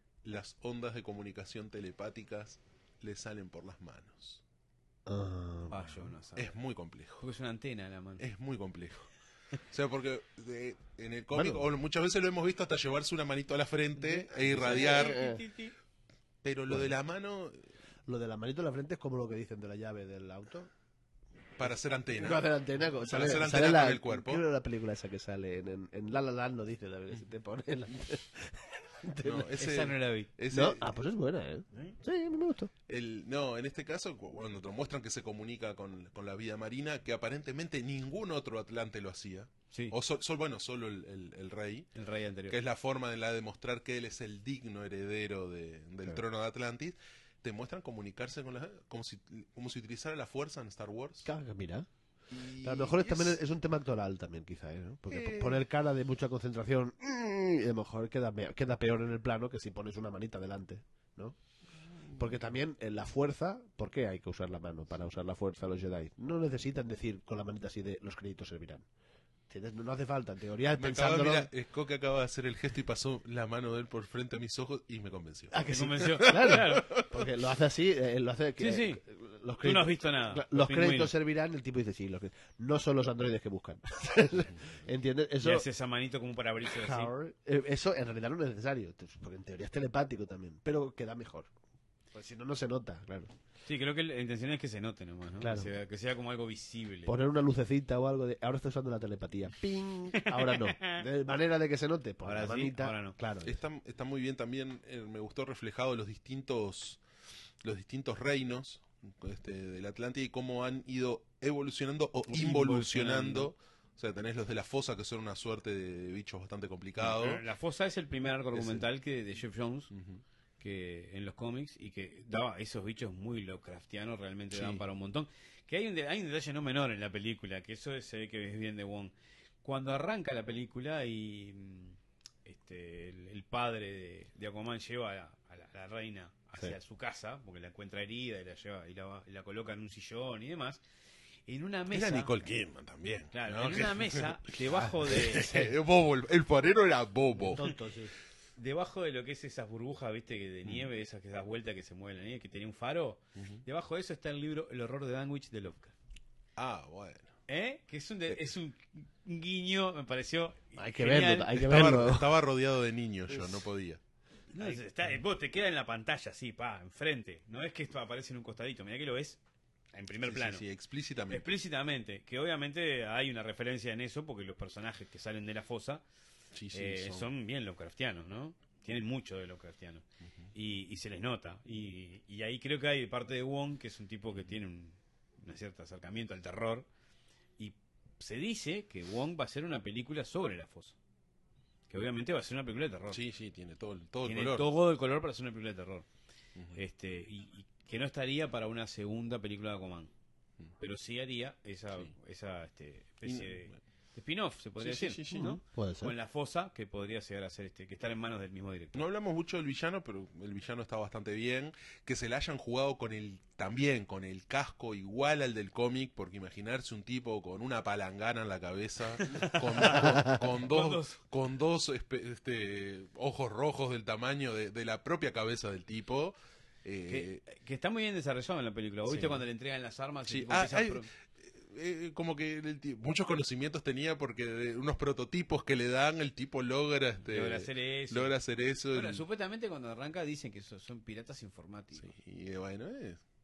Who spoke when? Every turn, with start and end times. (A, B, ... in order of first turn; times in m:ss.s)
0:00.2-0:04.4 A
0:05.0-0:06.1 B
0:05.7-0:06.5 C
0:06.4-0:07.2 A
0:07.2-0:08.2 C
0:08.2-0:09.1 A
0:09.7-0:15.3 A
0:11.3-0:11.6 B
0:14.4-0:15.7 C
0:14.4-0:15.4 B
0:16.4-0:17.6 A
0:18.1-0:20.7 B
0:21.6-0:22.5 A
0:21.6-0:29.6 B
0:23.1-0:24.4 A
0:29.2-0:30.9 A
0:29.6-0:30.3 C
0:30.5-0:32.7 B
0:32.9-0:41.9 A
0:42.0-0:42.6 C
0:42.5-0:51.3 A
0:51.2-0:51.9 B
0:52.3-0:53.4 A
0:52.6-1:01.4 B
0:55.1-0:55.6 A
1:01.9-1:02.4 A
1:02.2-1:08.8 B
1:09.5-1:11.5 B
1:10.8-1:17.1 A
1:15.5-1:25.6 B
1:15.6-1:16.9 C
1:18.6-1:19.0 C
1:19.6-1:21.1 C
1:25.4-1:27.1 C
1:26.7-1:31.5 B
1:32.1-1:33.3 B
1:33.6-1:37.1 C
1:35.4-1:35.7 B
1:37.0-1:43.6 B
1:40.1-1:41.0 C
1:42.2-1:43.2 C
1:43.4-1:47.0 A
1:47.6-1:57.4 A
1:52.3-1:53.5 C
1:57.0-1:59.9 C
1:58.5-1:58.8 A
1:59.9-2:00.2 A
2:00.6-2:20.8 C
2:04.5-2:04.8 A
2:21.5-2:22.4 C
2:21.9-2:27.6 A
2:23.3-2:25.6 C
2:25.3-2:25.7 B
2:27.4-2:28.1 B
2:28.6-2:35.9 C
2:33.4-2:33.6 A
2:36.6-2:37.4 A
2:37.5-2:42.0 C
2:40.8-2:42.4 B
2:41.7-2:44.0 A
2:43.3-2:43.6 B
2:44.5-2:49.4 C
2:49.9-2:50.6 C
2:50.2-2:51.5 A
2:51.3-2:56.0 C
2:56.5-2:57.3 A
2:56.7-3:06.8 C
3:07.6-3:11.0 C
3:11.9-3:13.2 C
3:13.1-3:14.7 A
3:14.2-3:16.0 C
3:16.7-3:20.1 C
3:20.8-3:29.0 C
3:23.2-3:23.8 A
3:24.8-3:25.6 A
3:25.3-3:26.1 B
3:28.9-3:47.4 A
3:39.2-3:41.2 C
3:40.0-3:40.4 B
3:47.1-3:51.1 C
3:49.0-3:49.4 A
3:50.2-3:59.2 A
3:57.3-3:58.3 C
3:58.9-4:02.1 C
4:02.0-4:03.2 A